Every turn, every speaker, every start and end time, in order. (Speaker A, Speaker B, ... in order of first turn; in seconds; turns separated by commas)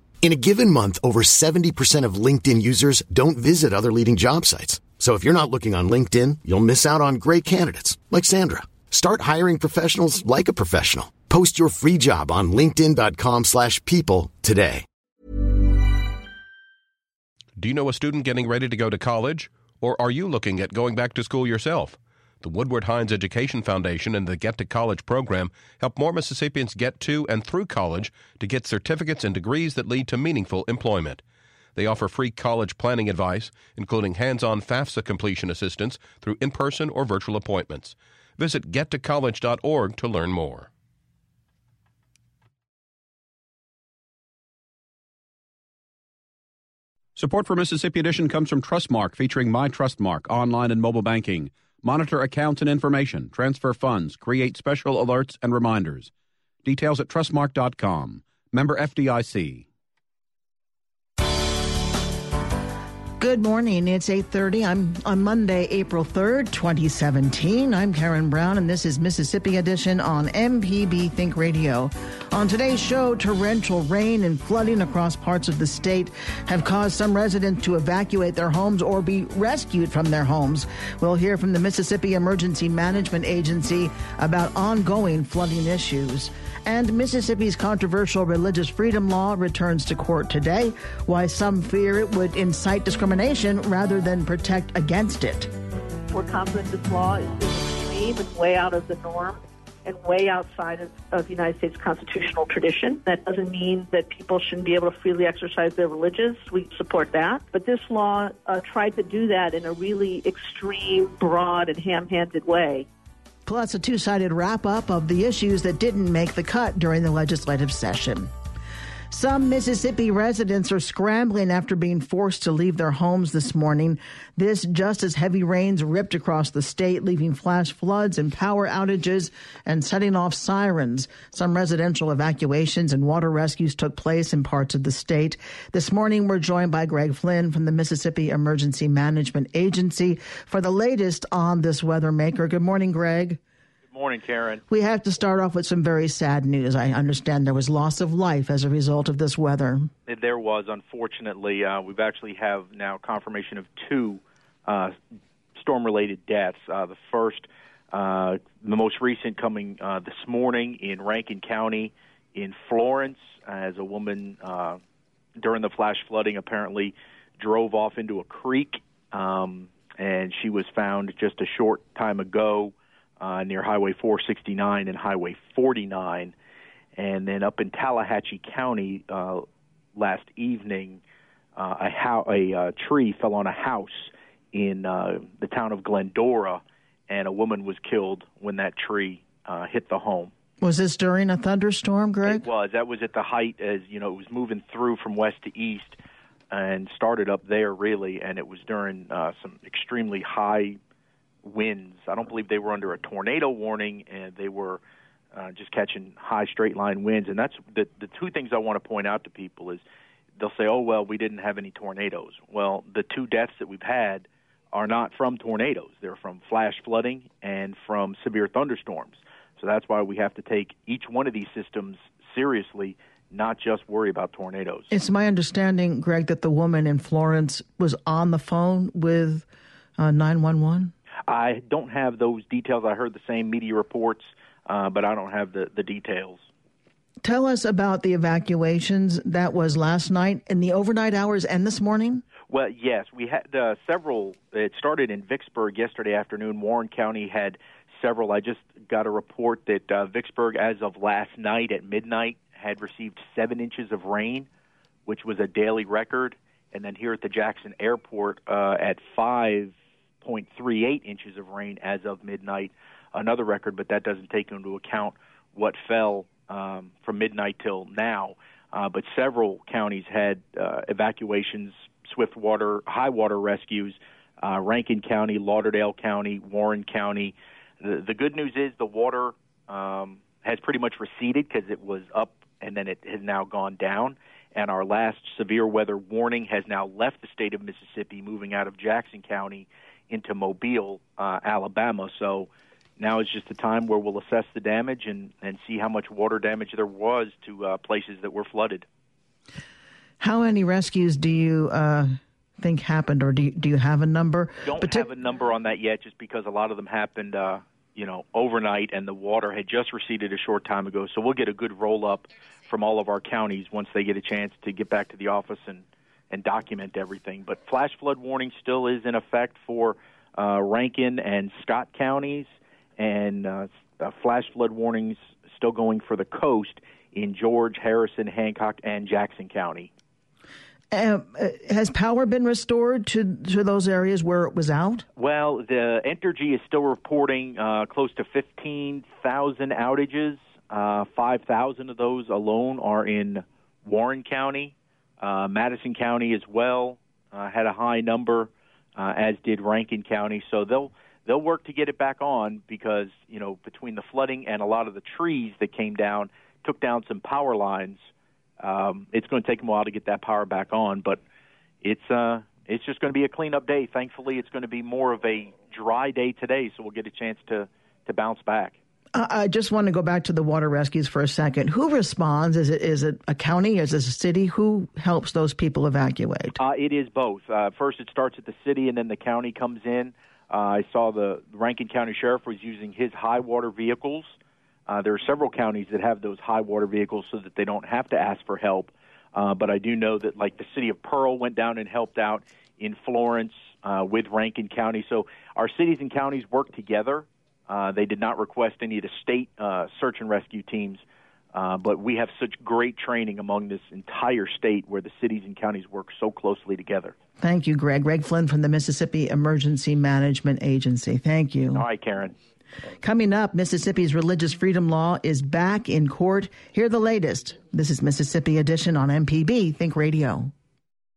Speaker A: 0.2-14.8, Speaker B: 17.6-31.2, Speaker B: 31.8-40.7, Speaker C: 47.2-56.1, Speaker C: 56.6-59.6, Speaker D: 63.2-95.5, Speaker E: 96.1-112.9, Speaker D: 113.5-118.3, Speaker D: 119.1-143.4, Speaker F: 143.9-144.6, Speaker D: 144.7-149.9, Speaker F: 150.1-155.0, Speaker F: 155.6-164.8, Speaker F: 165.4-176.3, Speaker F: 177.0-181.0, Speaker F: 181.6-190.3, Speaker D: 190.6-192.5, Speaker F: 192.3-196.0, Speaker F: 196.5-200.8, Speaker F: 201.4-204.8, Speaker F: 205.3-209.8, Speaker F: 210.4-224.9, Speaker D: 224.9-229.5, Speaker D: 230.0-230.9, Speaker F: 231.3-236.4, Speaker D: 237.2-242.2, Speaker F: 242.5-254.5, Speaker F: 255.1-298.9, Speaker D: 300.2-305.1, Speaker F: 304.7-329.9, Speaker D: 330.9-335.1, Speaker F: 335.2-358.1, Speaker F: 358.6-361.2, Speaker F: 361.8-368.8, Speaker D: 369.1-376.6, Speaker F: 376.6-384.3, Speaker F: 384.9-401.0, Speaker F: 401.5-407.1, Speaker D: 407.4-411.8, Speaker F: 411.7-412.4, Speaker D: 413.0-420.5